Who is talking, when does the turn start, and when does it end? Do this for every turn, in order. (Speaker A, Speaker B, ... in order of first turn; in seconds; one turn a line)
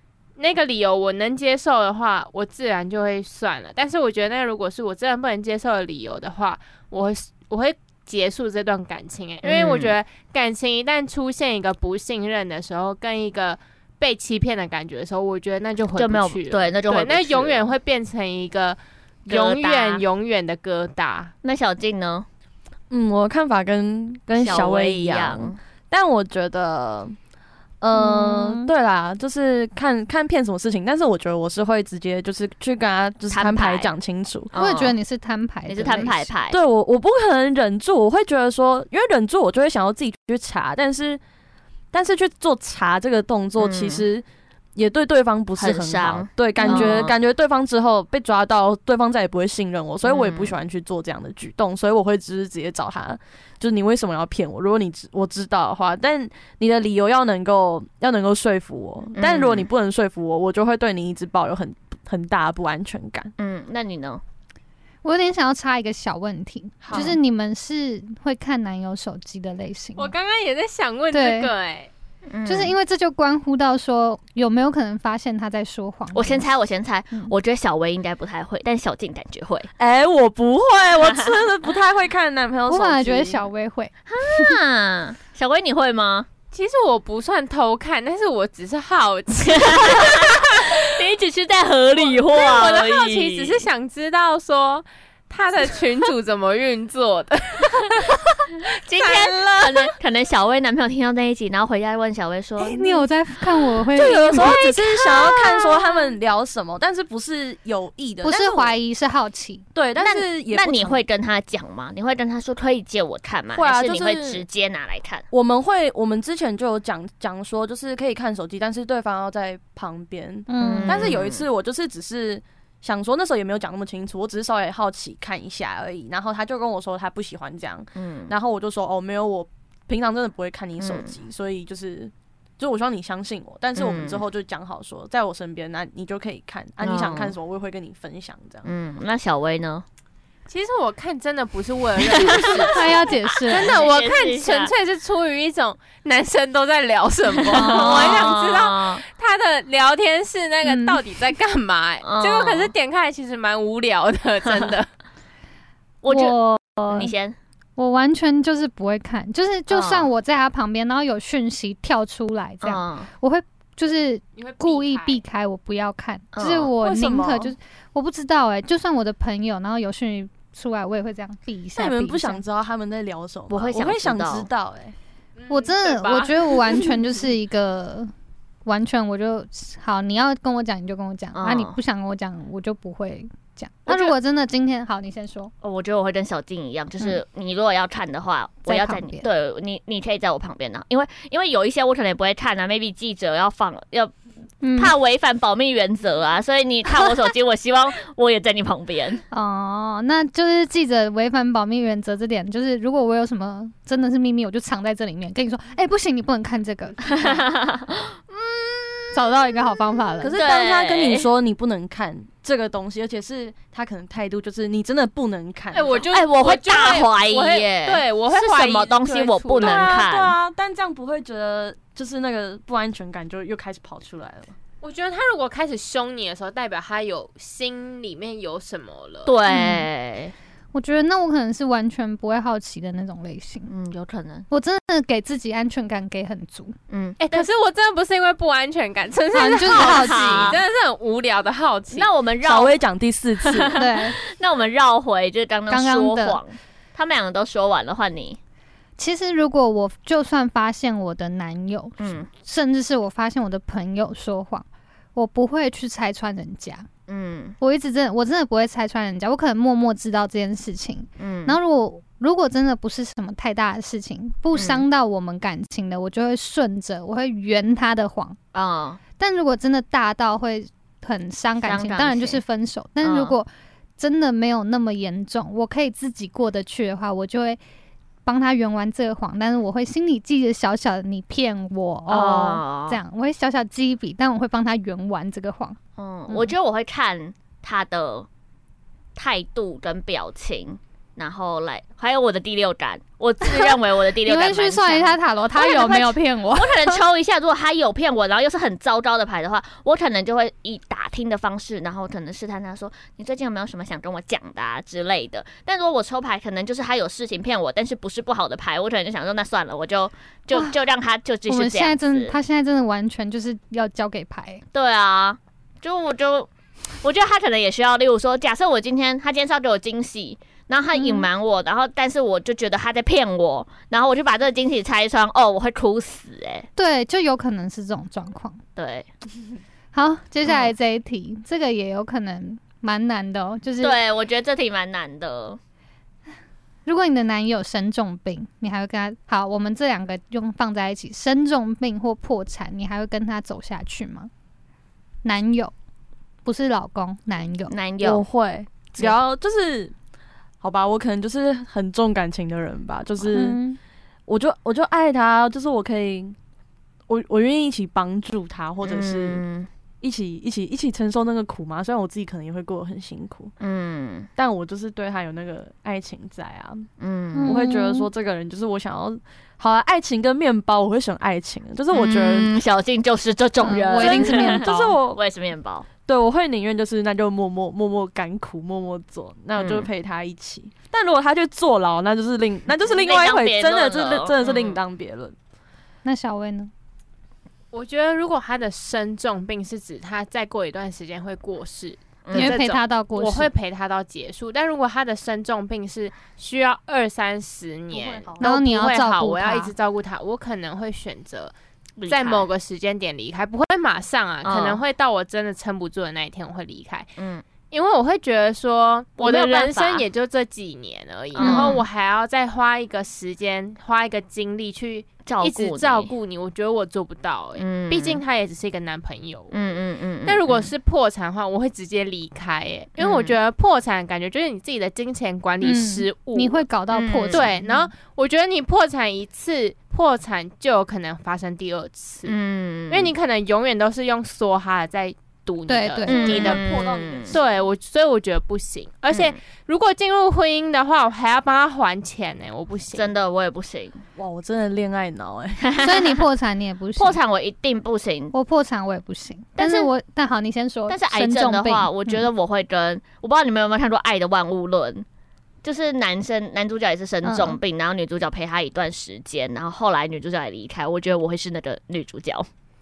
Speaker A: 0.4-21.3
Speaker B: 9.4-9.9
Speaker B: 15.9-17.7
Speaker B: 19.3-20.0
Speaker B: 21.4-22.2
Speaker C: 22.9-27.1
Speaker B: 24.4-25.6
Speaker C: 27.8-34.5
Speaker D: 27.9-28.7
Speaker B: 33.3-33.9
Speaker B: 34.5-35.0
Speaker D: 34.5-36.3
Speaker B: 35.7-36.6
Speaker C: 36.5-41.2
Speaker C: 41.9-44.2
Speaker B: 43.6-44.0
Speaker C: 44.8-63.3
Speaker B: 45.6-47.1
Speaker D: 46.6-47.1
Speaker B: 50.0-50.5
Speaker B: 59.1-59.7
Speaker B: 63.4-64.2
Speaker D: 65.0-70.1
Speaker C: 66.8-67.2
Speaker A: 70.0-71.9
Speaker D: 71.1-71.5
Speaker B: 72.3-72.7
Speaker D: 72.5-76.5
Speaker B: 76.1-79.7
Speaker C: 79.8-83.4
Speaker D: 82.7-84.5
Speaker B: 84.1-86.3
Speaker A: 86.5-90.8
Speaker B: 89.4-93.7
Speaker A: 92.0-99.9
Speaker B: 98.8-103.0
Speaker D: 102.6-104.5
Speaker C: 103.9-108.8
Speaker B: 104.0-106.1
Speaker D: 108.2-109.7
Speaker C: 109.7-111.0
Speaker B: 110.0-115.2
Speaker C: 113.5-114.4
Speaker C: 115.3-138.7
Speaker D: 120.5-121.1
Speaker B: 120.6-121.4
Speaker B: 128.0-128.3
Speaker B: 130.8-131.1
Speaker B: 133.8-134.2
Speaker B: 136.8-137.3
Speaker B: 138.6-139.8
Speaker A: 140.5-154.9
Speaker B: 142.0-142.7
Speaker D: 142.7-143.7
Speaker B: 143.5-144.7
Speaker B: 147.5-149.0
Speaker D: 147.6-147.9
Speaker D: 150.6-151.0
Speaker B: 152.0-152.7
Speaker B: 154.5-154.7
Speaker B: 156.0-156.3
Speaker D: 156.1-157.1
Speaker B: 156.9-157.3
Speaker D: 157.8-172.4
Speaker B: 159.7-160.1
Speaker B: 162.6-163.1
Speaker A: 164.3-165.2
Speaker B: 166.3-166.7
Speaker C: 166.8-167.5
Speaker C: 171.8-174.9
Speaker B: 173.5-174.5
Speaker A: 175.3-176.9
Speaker D: 175.5-178.1
Speaker D: 178.7-185.5
Speaker B: 181.3-181.8
Speaker B: 185.6-194.1
Speaker D: 188.7-189.2
Speaker D: 194.6-194.9
Speaker B: 194.8-199.2
Speaker D: 199.3-207.4
Speaker B: 207.0-209.1
Speaker D: 209.1-210.3
Speaker C: 210.2-216.1
Speaker B: 210.3-211.3
Speaker A: 215.7-219.9
Speaker B: 216.1-220.3
Speaker C: 219.6-224.5
Speaker A: 224.8-229.3
Speaker B: 229.2-230.3
Speaker D: 229.5-229.8
Speaker D: 230.7-233.7
Speaker B: 233.7-234.5
Speaker D: 234.5-236.8
Speaker B: 236.9-237.4
Speaker A: 237.2-242.1
Speaker D: 239.3-240.6
Speaker B: 239.6-240.6
Speaker B: 241.9-242.8
Speaker C: 242.4-243.8
Speaker B: 243.4-248.4
Speaker D: 243.7-244.2
Speaker D: 245.7-246.4
Speaker D: 249.0-256.9
Speaker B: 252.0-252.3
Speaker B: 257.1-257.6
Speaker D: 257.6-268.4
Speaker B: 261.2-261.6
Speaker B: 264.5-264.8
Speaker B: 268.5-269.0
Speaker D: 269.2-277.6
Speaker B: 271.6-272.4
Speaker B: 273.0-273.4
Speaker D: 278.2-285.8
Speaker B: 282.1-283.0
Speaker B: 286.0-288.3
Speaker D: 286.3-286.5
Speaker B: 289.1-312.3
Speaker D: 293.4-297.0
Speaker D: 311.5-314.6
Speaker B: 314.7-316.5
Speaker B: 317.0-326.7
Speaker D: 320.9-321.3
Speaker D: 326.8-328.6
Speaker B: 328.8-329.1
Speaker D: 329.9-334.0
Speaker B: 333.8-335.6
Speaker D: 336.9-344.3
Speaker D: 345.2-345.7
Speaker D: 346.4-347.7
Speaker B: 347.7-348.2
Speaker C: 348.0-349.9
Speaker C: 350.6-353.6
Speaker D: 353.3-353.8
Speaker C: 354.3-356.4
Speaker C: 357.1-359.4
Speaker B: 358.8-359.7
Speaker C: 360.0-363.5
Speaker B: 363.6-364.3
Speaker C: 364.4-366.9
Speaker B: 367.0-367.6
Speaker D: 367.4-368.1
Speaker C: 367.4-372.5
Speaker B: 371.9-375.9
Speaker D: 373.6-374.7
Speaker C: 374.0-375.2
Speaker C: 376.1-385.3
Speaker B: 379.6-379.9
Speaker B: 382.9-384.8
Speaker D: 386.0-386.7
Speaker A: 387.7-401.5
Speaker B: 392.2-392.5
Speaker D: 392.3-393.5
Speaker C: 397.9-398.5
Speaker D: 398.4-399.7
Speaker B: 402.0-402.5
Speaker A: 402.1-407.1
Speaker B: 404.4-404.8
Speaker B: 407.2-407.4
Speaker A: 407.7-419.6
Speaker B: 409.2-410.1
Speaker B: 411.4-411.8
Speaker D: 411.4-411.8
Speaker B: 415.2-416.1
Speaker B: 417.6-418.2
Speaker B: 419.5-420.7
Speaker A: 420.2-426.6
Speaker B: 423.0-423.4
Speaker D: 425.6-427.9
Speaker B: 426.9-427.5
Speaker A: 427.3-432.3
Speaker B: 432.2-433.1
Speaker A: 432.9-436.6
Speaker D: 435.7-436.5
Speaker B: 436.1-437.4
Speaker C: 436.1-437.6
Speaker A: 437.3-443.1
Speaker B: 442.9-444.0
Speaker C: 444.1-445.7
Speaker B: 445.6-446.2
Speaker D: 445.8-447.2
Speaker B: 447.0-448.3
Speaker D: 448.3-452.3
Speaker B: 449.6-449.9
Speaker B: 450.9-455.0
Speaker B: 455.6-462.5
Speaker D: 457.2-457.6